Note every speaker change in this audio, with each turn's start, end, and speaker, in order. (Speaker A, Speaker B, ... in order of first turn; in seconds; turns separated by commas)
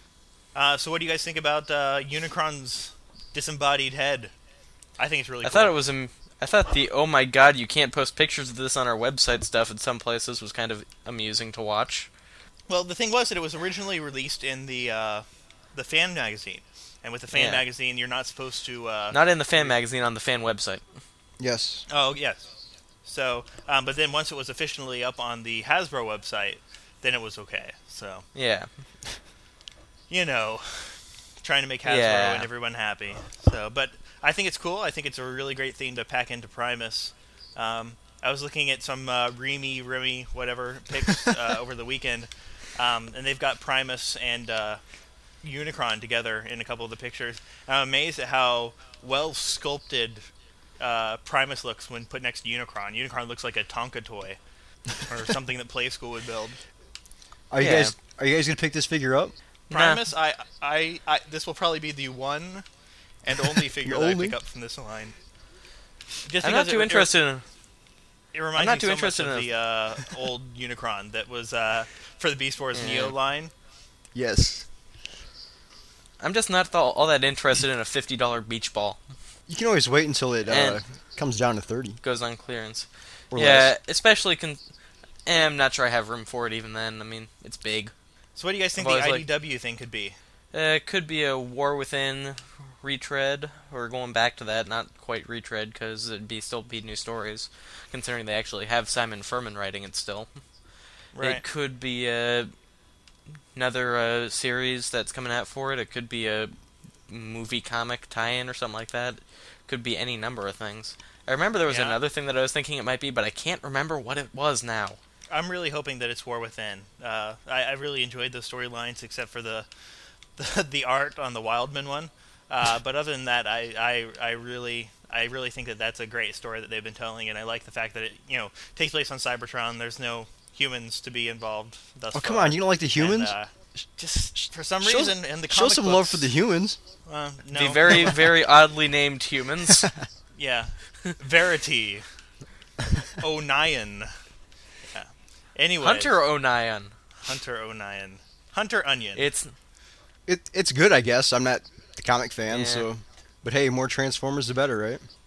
Speaker A: 0.5-4.3, Speaker A: 5.0-5.7, Speaker B: 5.4-12.1, Speaker A: 12.7-19.7, Speaker B: 17.3-17.6, Speaker B: 19.1-20.8, Speaker C: 21.4-21.9, Speaker A: 21.9-22.5, Speaker A: 23.1-28.2, Speaker B: 28.3-28.7, Speaker A: 30.1-44.8, Speaker B: 31.8-32.5, Speaker A: 45.4-50.2, Speaker A: 50.8-54.4, Speaker A: 55.0-56.6, Speaker C: 57.5-59.3, Speaker B: 57.6-57.9, Speaker B: 59.7-60.0, Speaker A: 59.7-62.6, Speaker A: 63.2-65.1, Speaker C: 63.8-64.4, Speaker A: 66.2-67.1, Speaker B: 66.4-67.4, Speaker A: 68.3-73.5, Speaker B: 68.5-69.5, Speaker B: 72.7-73.1, Speaker C: 74.1-74.7, Speaker B: 76.2-79.0, Speaker C: 79.5-82.0, Speaker B: 80.5-80.8, Speaker B: 82.0-84.6, Speaker C: 83.3-83.7, Speaker B: 85.2-87.9, Speaker A: 88.4-90.2, Speaker B: 88.8-89.2, Speaker B: 90.5-100.3, Speaker A: 101.1-101.4, Speaker B: 101.2-102.5, Speaker B: 103.5-106.5, Speaker B: 107.1-115.0, Speaker A: 111.7-112.0, Speaker A: 115.3-119.7, Speaker A: 120.4-136.3, Speaker C: 132.1-133.3, Speaker C: 134.8-136.8, Speaker A: 137.1-138.2, Speaker B: 137.5-139.9, Speaker A: 140.3-142.0, Speaker A: 143.2-144.1, Speaker A: 144.9-146.1, Speaker B: 145.8-146.9, Speaker A: 147.2-149.2, Speaker B: 149.1-149.5, Speaker C: 150.3-155.0, Speaker B: 152.5-152.9